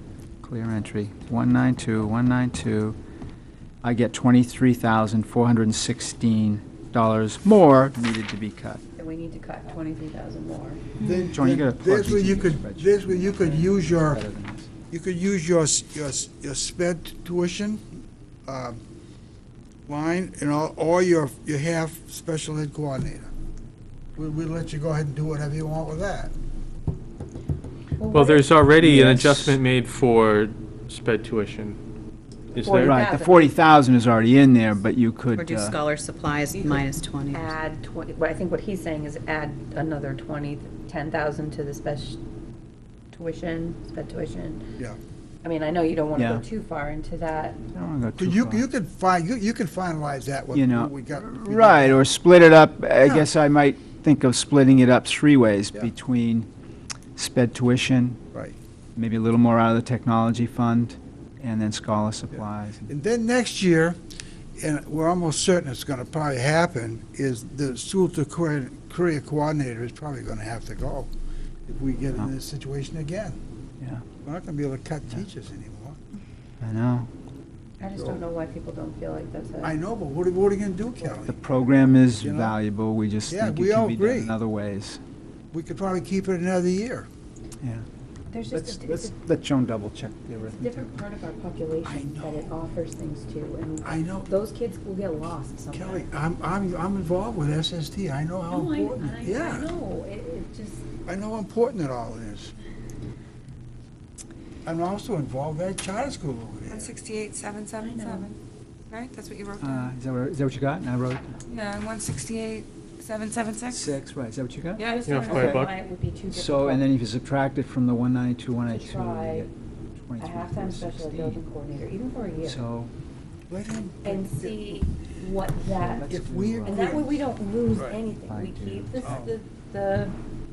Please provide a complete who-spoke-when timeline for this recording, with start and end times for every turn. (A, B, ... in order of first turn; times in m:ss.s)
0:00.4-0:03.0 A
0:03.8-0:08.8 A
0:09.0-0:10.8 B
0:11.0-0:14.2 C
0:11.3-0:14.7 A
0:14.9-0:17.8 C
0:18.4-0:18.8 C
0:19.9-0:23.3 C
0:24.2-0:26.3 C
0:28.0-0:28.5 B
0:28.1-0:31.8 D
0:28.8-0:29.6 A
0:32.5-0:33.0 D
0:32.6-0:33.6 B
0:32.8-0:35.8 A
0:35.4-0:37.5 E
0:36.5-0:42.2 B
0:43.1-0:44.7 B
0:45.4-0:47.6 B
0:46.2-0:46.4 A
0:47.7-0:48.6 A
0:48.2-0:52.1 C
0:50.5-0:56.5 A
0:53.0-0:53.3 C
0:57.2-0:58.2 A
0:59.0-1:02.9 A
1:02.3-1:04.0 C
1:04.6-1:11.1 C
1:11.7-1:13.4 C
1:13.8-1:14.1 A
1:14.2-1:16.0 C
1:16.6-1:17.1 A
1:17.8-1:19.7 B
1:19.6-1:21.4 C
1:21.3-1:25.0 A
1:22.2-1:22.6 C
1:23.3-1:24.3 C
1:25.5-1:27.1 C
1:28.3-1:29.1 B
1:28.5-1:31.0 A
1:30.4-1:36.1 B
1:31.8-1:32.5 C
1:33.8-1:34.3 C
1:35.7-1:39.7 C
1:38.5-1:40.8 B
1:41.1-1:42.5 C
1:44.6-1:46.9 C
1:46.7-1:48.3 F
1:47.8-1:48.3 B
1:48.9-1:49.9 F
1:49.6-1:51.3 A
1:51.5-1:53.9 F
1:53.7-1:55.7 A
1:54.8-1:56.9 B
1:55.0-1:55.7 D
1:56.3-2:01.4 A
1:58.6-1:59.5 B
2:00.2-2:02.6 B
2:02.4-2:02.9 A
2:03.5-2:04.8 C
2:04.0-2:06.1 B
2:05.8-2:07.3 A
2:06.1-2:07.1 C
2:06.6-2:10.1 B
2:08.2-2:09.2 A
2:09.0-2:09.3 C